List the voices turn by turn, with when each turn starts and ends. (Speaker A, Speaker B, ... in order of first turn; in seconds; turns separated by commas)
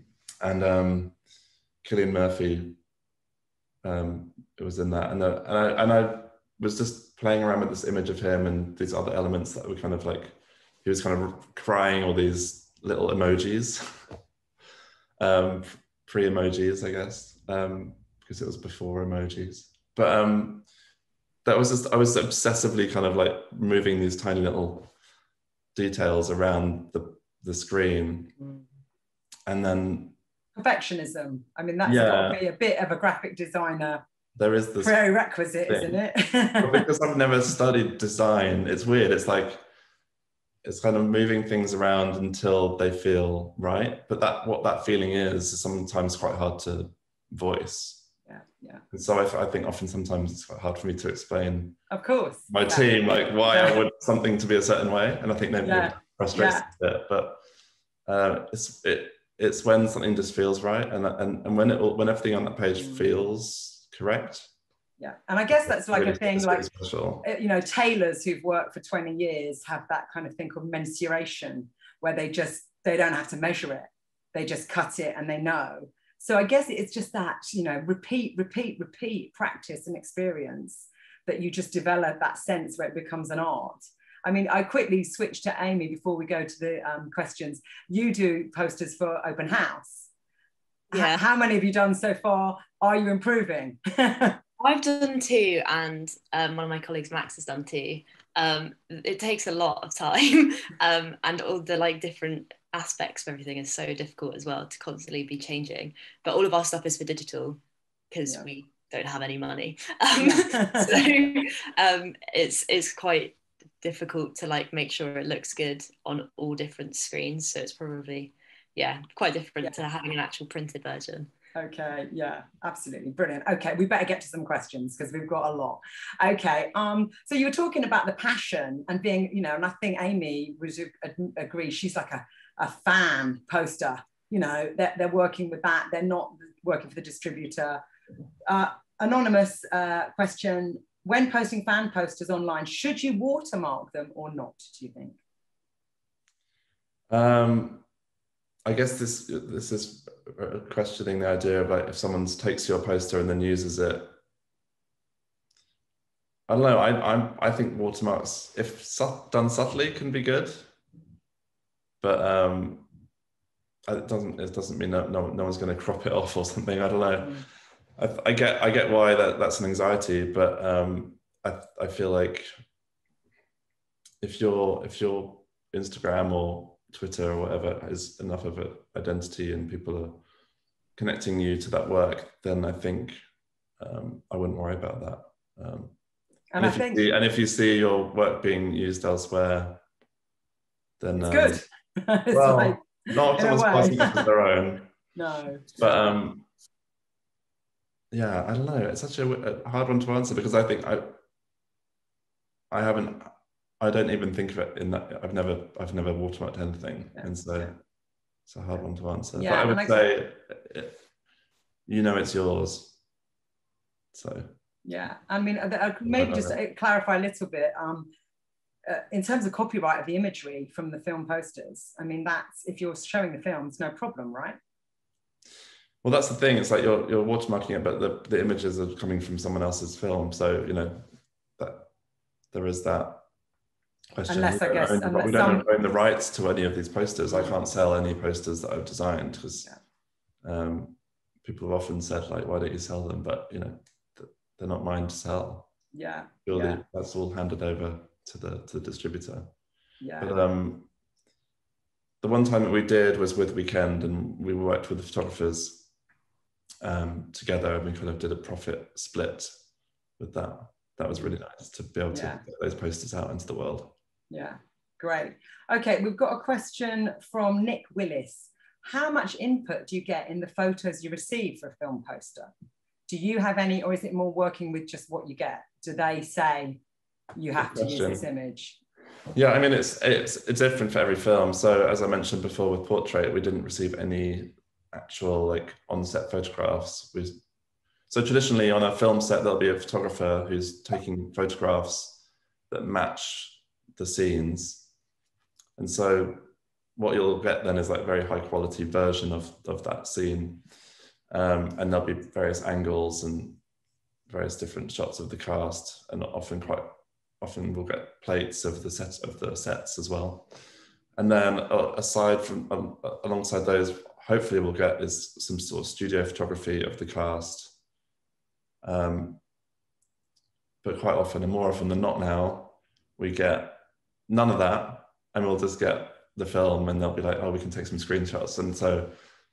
Speaker A: 0.4-1.1, Speaker A: 1.8-2.8, Speaker A: 3.8-13.8, Speaker A: 15.2-20.6, Speaker A: 21.4-24.9, Speaker A: 25.7-28.3, Speaker A: 29.4-30.1, Speaker B: 30.6-34.0, Speaker A: 31.8-32.4, Speaker A: 34.4-35.0, Speaker B: 34.8-36.9, Speaker A: 35.7-36.0, Speaker A: 36.6-39.6, Speaker A: 40.6-48.1, Speaker B: 48.3-48.8, Speaker A: 48.9-51.8, Speaker B: 51.9-53.8, Speaker A: 52.5-57.4, Speaker B: 55.6-56.7, Speaker A: 58.0-64.5, Speaker B: 62.7-63.1, Speaker B: 65.0-66.7, Speaker A: 65.6-67.2, Speaker B: 67.2-90.1, Speaker B: 90.9-94.4, Speaker C: 90.9-91.2, Speaker C: 94.6-107.6, Speaker C: 108.1-121.3, Speaker B: 110.2-111.2, Speaker B: 121.5-137.8, Speaker B: 138.4-145.2, Speaker A: 147.1-147.8, Speaker A: 148.6-154.1, Speaker A: 156.5-160.7, Speaker A: 162.0-162.9, Speaker A: 163.8-167.4, Speaker B: 167.2-167.4, Speaker A: 168.0-172.5, Speaker A: 174.2-180.2, Speaker A: 180.9-183.2, Speaker A: 183.8-185.9, Speaker B: 186.5-187.1, Speaker A: 186.6-189.8, Speaker A: 191.0-191.6, Speaker B: 191.2-194.3, Speaker A: 192.3-194.9, Speaker B: 195.1-196.2, Speaker A: 195.7-196.4, Speaker A: 198.1-201.1, Speaker A: 202.7-207.7, Speaker B: 207.1-207.7, Speaker A: 208.5-210.9, Speaker B: 209.3-210.1, Speaker A: 211.9-213.0, Speaker A: 214.1-214.5, Speaker B: 214.8-218.1, Speaker A: 216.1-216.6, Speaker B: 218.9-224.6, Speaker A: 226.0-231.1, Speaker A: 231.6-231.9, Speaker A: 232.5-233.2, Speaker A: 234.2-239.7, Speaker B: 234.3-235.7, Speaker B: 237.3-237.5, Speaker A: 240.4-245.7, Speaker B: 245.9-246.8, Speaker A: 246.4-249.5, Speaker B: 250.0-250.3, Speaker A: 250.2-250.9, Speaker A: 252.2-255.9, Speaker A: 256.8-259.6, Speaker A: 260.2-263.9, Speaker B: 262.1-262.4, Speaker B: 264.3-272.5, Speaker B: 273.1-276.8, Speaker B: 277.4-278.8, Speaker A: 277.6-278.2, Speaker A: 279.3-287.4, Speaker A: 288.1-294.9, Speaker A: 295.8-296.4, Speaker A: 296.9-300.6, Speaker A: 301.3-303.6, Speaker A: 304.3-310.5, Speaker A: 311.2-317.8, Speaker A: 318.8-319.4, Speaker A: 320.8-329.1